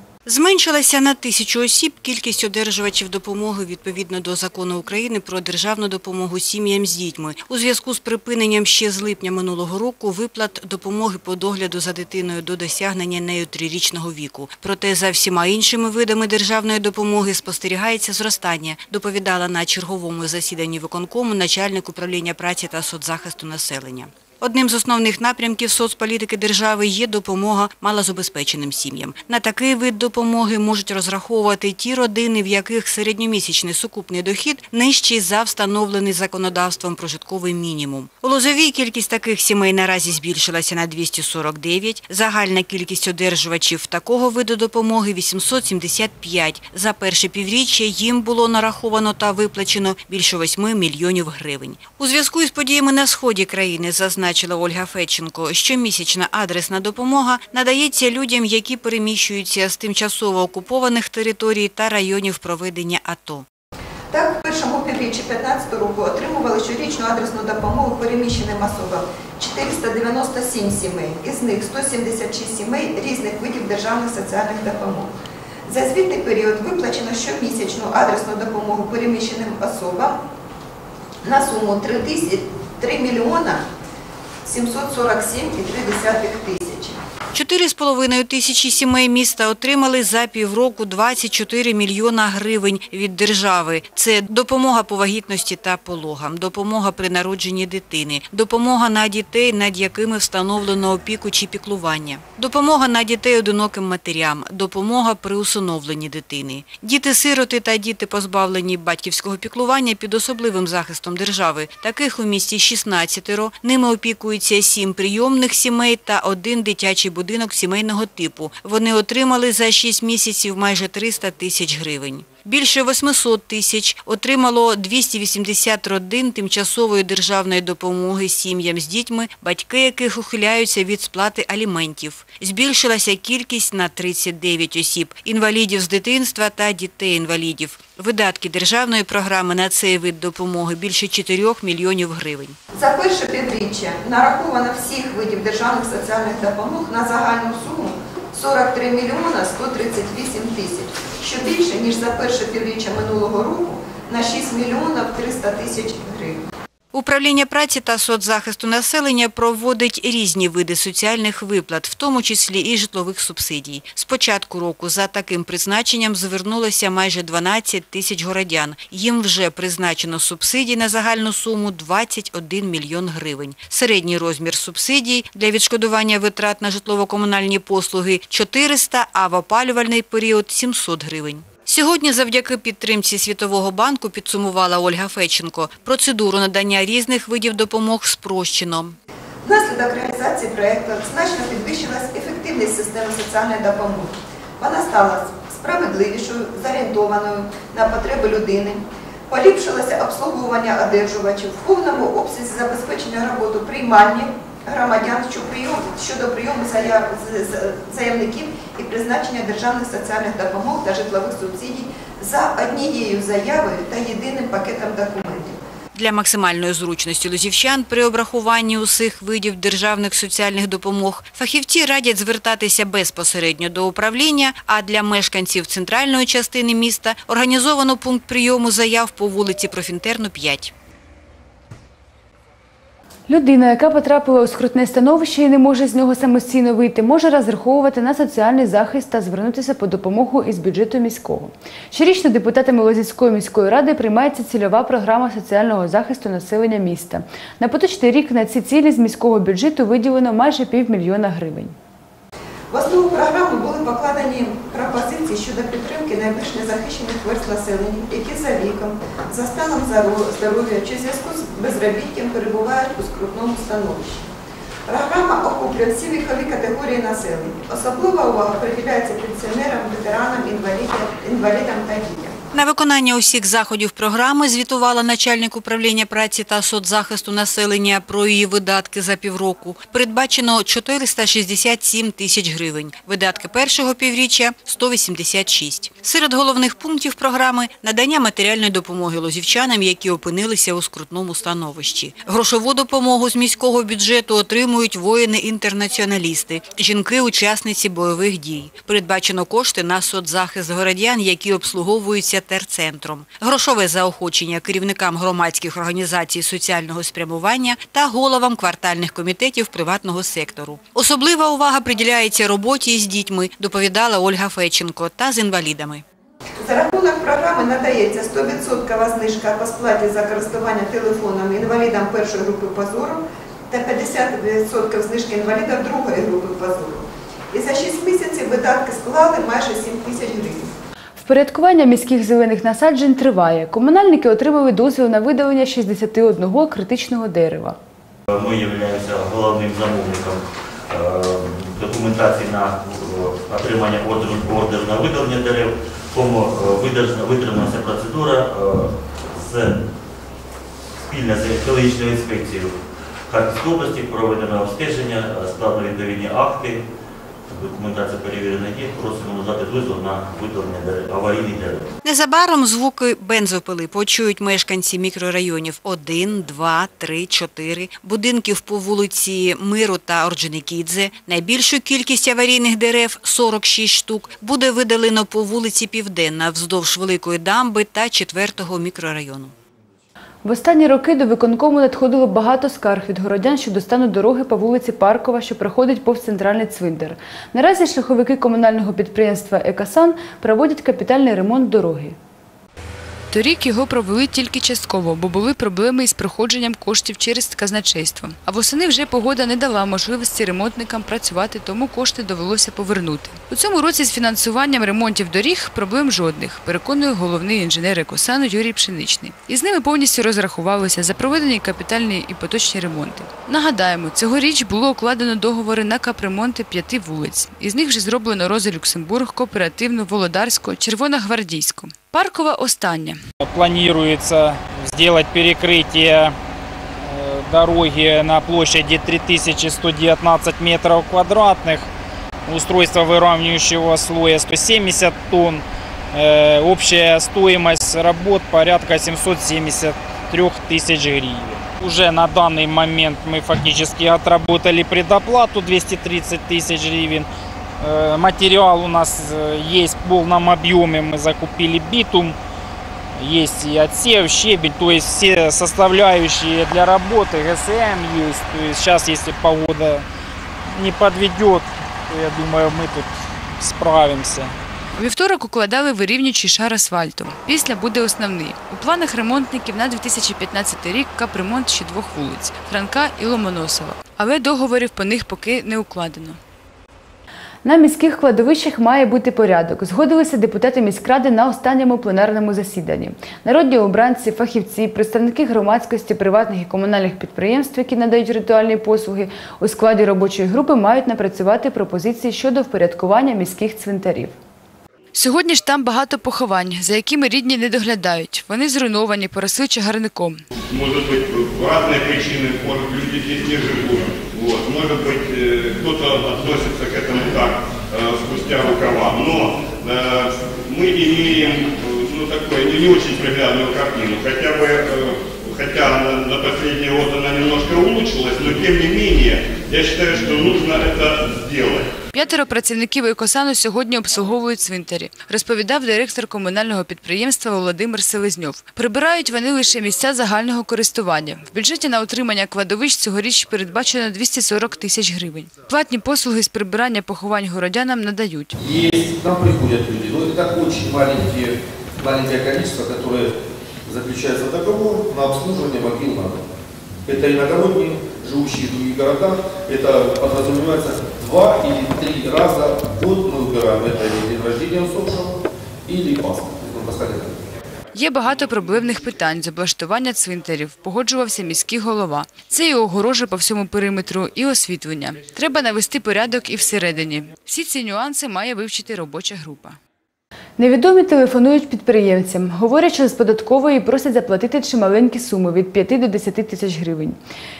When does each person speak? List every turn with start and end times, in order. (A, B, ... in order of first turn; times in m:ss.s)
0:00.2-1:03.4 A
1:04.1-1:15.1 B
1:15.7-1:20.2 B
1:21.2-1:23.6 B
1:24.4-1:27.0 B
1:27.4-2:22.6 A
2:22.8-2:36.5 B
2:36.9-3:09.0 A
3:09.4-3:35.6 B
3:35.9-3:50.7 A
3:53.3-4:11.7 C
4:12.7-4:24.3 B
4:24.9-4:32.4 B
4:32.5-5:16.0 A
5:16.6-5:30.7 B
5:31.2-5:37.8 C
5:38.3-5:49.8 D
5:51.1-5:52.8 D
5:53.3-5:56.8 D
5:57.5-6:01.9 D
6:02.0-6:19.5 A
6:20.4-6:32.2 C
6:33.3-7:03.2 C
7:03.4-7:06.4 E
7:07.0-7:11.9 E
7:12.5-7:27.3 E
7:27.8-7:32.4 E
7:33.2-7:40.0 E
7:40.7-7:44.6 E
7:44.9-7:56.4 C
7:57.6-8:14.4 C
8:15.1-8:20.4 C
8:20.7-8:41.9 F
8:42.1-8:58.6 C
8:58.6-9:03.3 G
9:03.9-9:06.4 G
9:07.1-9:17.4 G
9:17.9-9:29.8 C
9:30.6-9:37.2 C